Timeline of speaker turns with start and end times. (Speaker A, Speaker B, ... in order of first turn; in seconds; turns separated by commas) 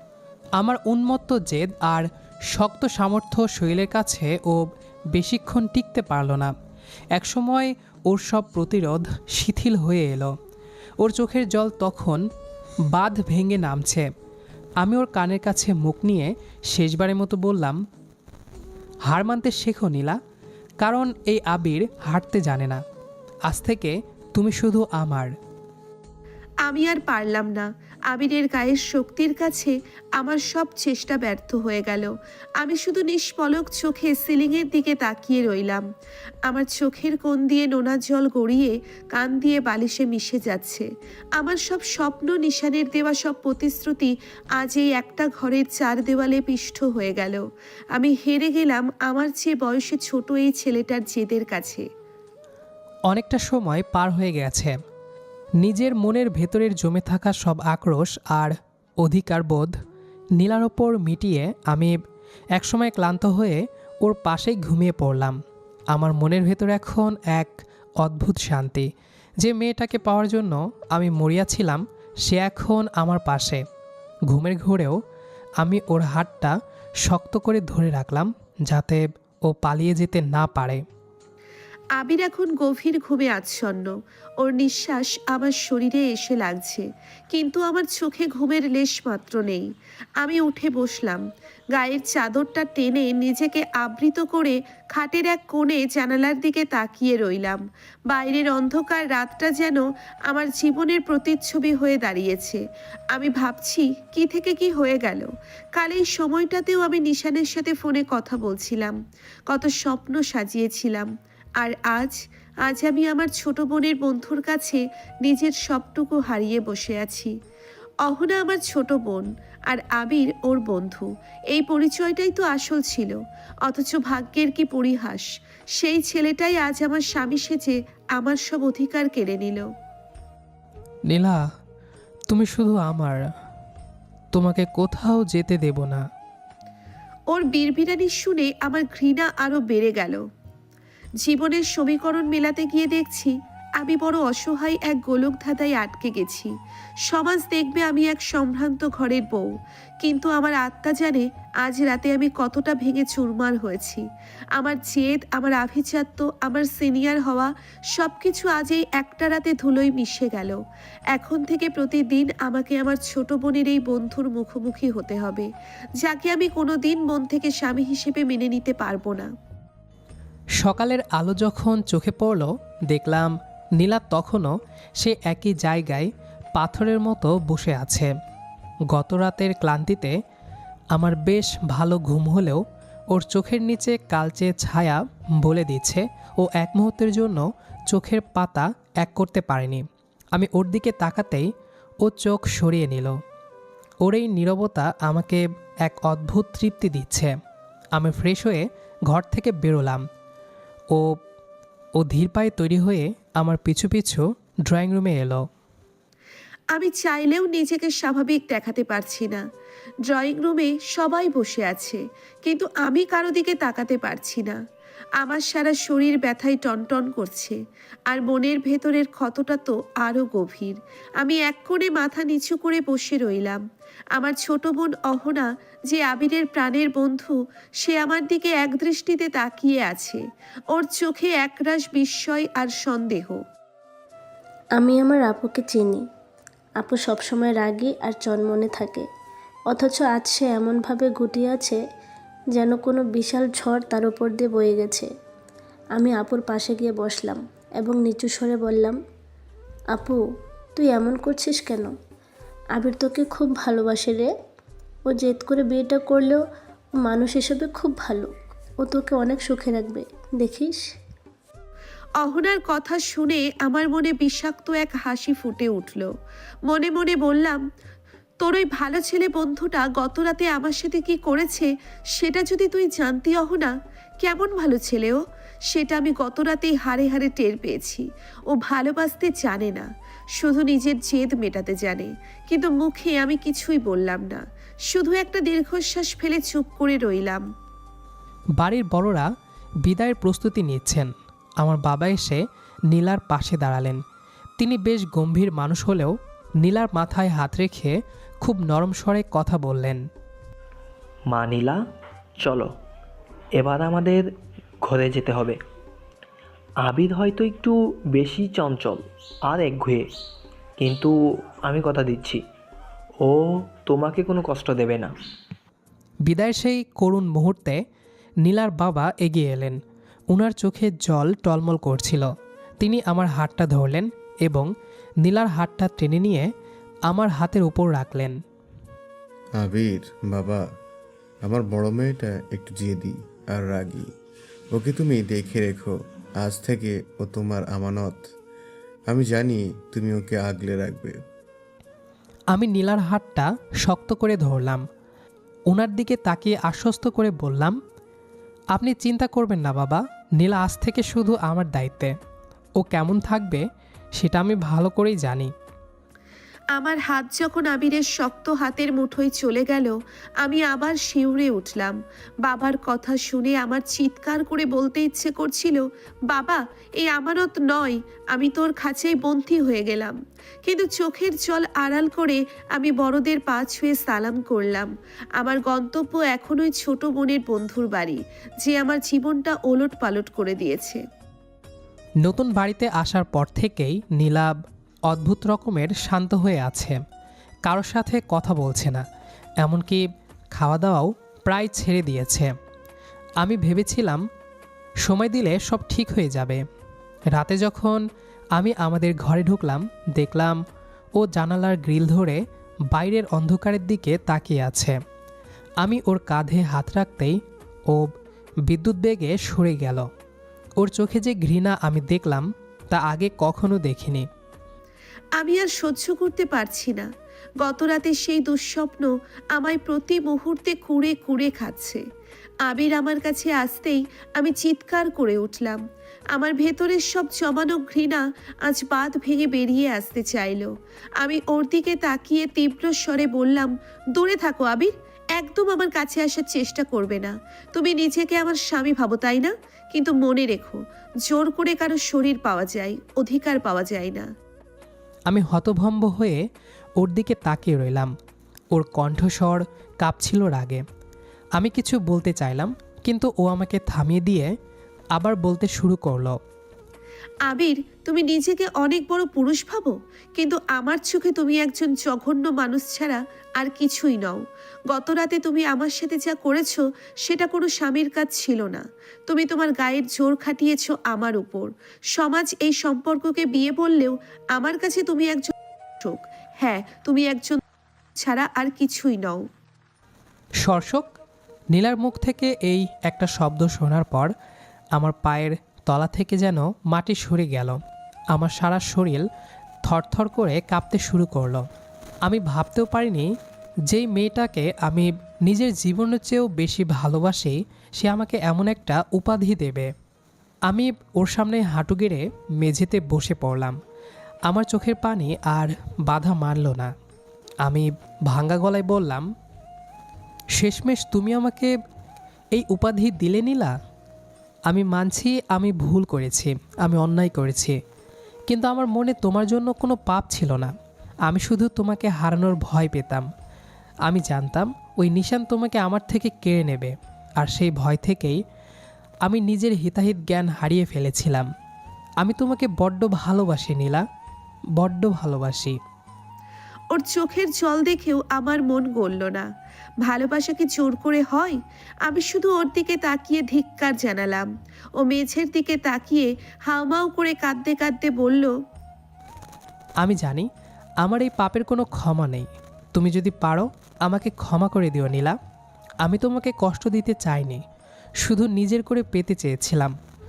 Speaker A: 0.6-6.5, Speaker A: 7.2-10.3, Speaker A: 11.0-12.2, Speaker A: 12.9-14.1, Speaker A: 14.8-17.8, Speaker A: 19.1-20.2, Speaker A: 20.8-22.8, Speaker A: 23.5-25.3, Speaker B: 26.6-35.9, Speaker B: 36.5-51.9, Speaker A: 53.1-54.8, Speaker A: 55.6-59.7, Speaker A: 60.4-62.0, Speaker A: 62.5-65.4, Speaker A: 65.9-68.9, Speaker A: 69.4-73.6, Speaker A: 74.3-75.0, Speaker A: 75.6-80.8, Speaker B: 82.0-117.4, Speaker B: 118.0-129.7, Speaker A: 131.1-131.4, Speaker A: 132.3-133.2, Speaker A: 134.3-136.1, Speaker B: 137.3-140.3, Speaker B: 141.2-169.3, Speaker A: 170.6-178.1, Speaker A: 178.9-180.2, Speaker A: 180.9-191.5, Speaker A: 192.0-193.2, Speaker A: 194.0-197.3, Speaker A: 197.9-200.0, Speaker A: 202.0-205.5, Speaker B: 206.7-209.5, Speaker B: 210.1-214.6, Speaker B: 215.2-233.4, Speaker C: 234.8-236.1, Speaker C: 236.8-239.1, Speaker C: 239.7-241.8, Speaker C: 242.5-245.1, Speaker C: 245.9-249.0, Speaker C: 249.9-250.2, Speaker C: 250.8-251.9, Speaker C: 252.7-254.3, Speaker C: 255.1-256.4, Speaker C: 257.0-260.8, Speaker B: 262.2-266.1, Speaker B: 266.6-267.6, Speaker B: 268.4-287.5, Speaker A: 288.6-289.3, Speaker A: 289.8-294.0, Speaker A: 294.6-300.0, Speaker D: 301.3-301.8, Speaker D: 302.4-302.7, Speaker D: 303.6-305.6, Speaker D: 306.8-310.1, Speaker D: 310.8-312.4, Speaker D: 313.2-315.1, Speaker A: 316.3-317.8, Speaker A: 318.4-319.8, Speaker A: 320.3-324.7, Speaker A: 325.2-326.5, Speaker A: 327.1-328.4, Speaker E: 329.6-330.6, Speaker E: 331.4-334.1, Speaker E: 334.7-338.3, Speaker E: 339.1-341.2, Speaker A: 342.5-344.9, Speaker A: 345.7-347.8, Speaker A: 348.7-352.1, Speaker A: 352.8-353.6, Speaker A: 354.2-355.5, Speaker B: 356.7-381.1, Speaker A: 382.2-384.6, Speaker A: 385.1-387.0, Speaker A: 387.7-389.1, Speaker A: 389.6-390.0, Speaker A: 390.6-392.5, Speaker A: 393.4-394.2, Speaker A: 395.0-396.6, Speaker A: 397.3-400.6, Speaker A: 401.2-405.0, Speaker A: 405.8-407.4, Speaker A: 408.7-410.1, Speaker A: 410.8-414.3, Speaker B: 415.4-417.1, Speaker B: 417.6-422.0, Speaker B: 422.6-444.3, Speaker A: 445.3-446.4, Speaker A: 447.0-448.1, Speaker A: 448.7-450.8, Speaker A: 451.6-454.5, Speaker A: 455.1-456.4, Speaker B: 457.5-477.6, Speaker B: 478.2-479.5, Speaker A: 480.6-481.1, Speaker A: 481.7-484.3, Speaker A: 484.9-487.8, Speaker A: 488.3-489.3, Speaker A: 489.8-491.6, Speaker A: 492.2-493.3, Speaker A: 493.9-499.9, Speaker A: 500.7-503.8, Speaker A: 504.5-506.9, Speaker A: 507.6-509.3, Speaker A: 510.6-511.7, Speaker A: 512.5-513.8, Speaker A: 514.7-517.8, Speaker A: 518.5-520.7, Speaker A: 521.3-523.3, Speaker A: 524.1-528.4, Speaker A: 529.2-531.5, Speaker A: 532.2-534.0, Speaker A: 534.8-535.8, Speaker B: 536.9-539.5, Speaker B: 540.0-548.6, Speaker A: 550.0-550.5, Speaker A: 551.0-555.4, Speaker A: 556.0-557.6, Speaker A: 558.2-560.0